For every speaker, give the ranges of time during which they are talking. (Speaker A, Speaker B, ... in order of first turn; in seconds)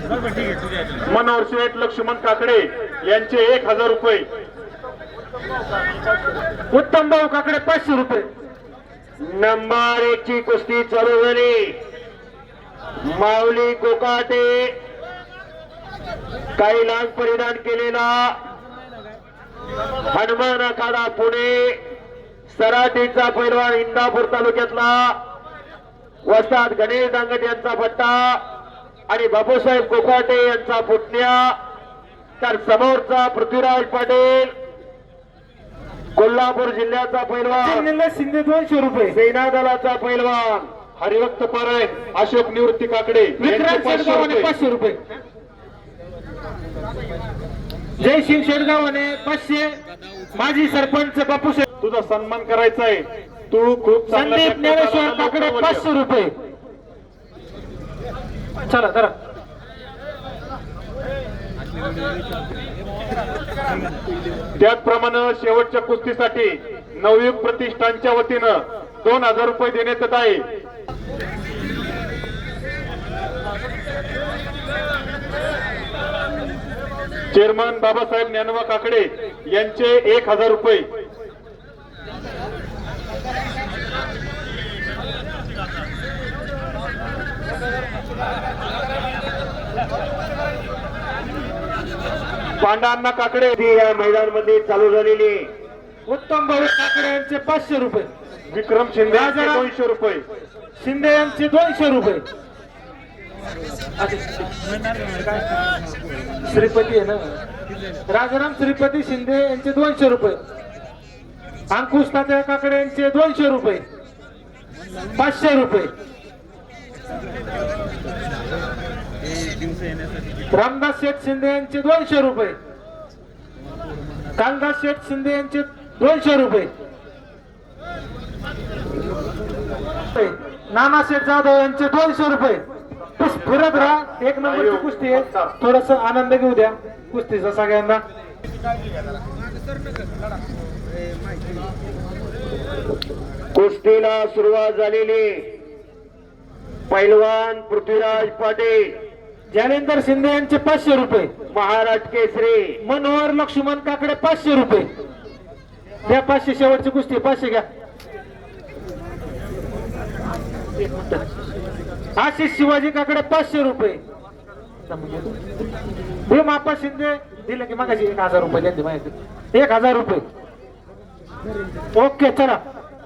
Speaker A: 1.1-4.2, 41.0-44.5, 51.8-55.8, 64.6-70.4, 77.3-80.9, 92.6-93.5, 98.5-100.2, 133.6-133.9, 134.4-135.5
Speaker B: 6.7-8.2, 37.5-39.1, 43.4-45.0, 48.0-49.7, 50.3-51.6, 54.1-56.3, 58.7-59.1, 96.1-98.1, 99.1-99.6, 100.8-102.2, 106.4-107.3, 108.1-110.4, 111.7-113.8, 115.1-115.9, 120.5-122.5, 124.4-126.7, 130.1-132.6, 133.2-138.0, 149.5-151.3, 152.8-154.9, 156.1-157.6, 162.2-164.0, 164.9-165.3, 166.3-170.2, 171.9-172.6
Speaker C: 9.2-11.7, 13.1-14.7, 16.6-18.3, 20.1-21.8, 22.5-25.1, 26.2-28.4, 29.1-31.5, 32.4-34.5, 36.1-37.9, 39.1-40.7, 43.4-44.1, 93.5-95.5, 143.5-145.5, 146.9-148.9, 151.5-152.8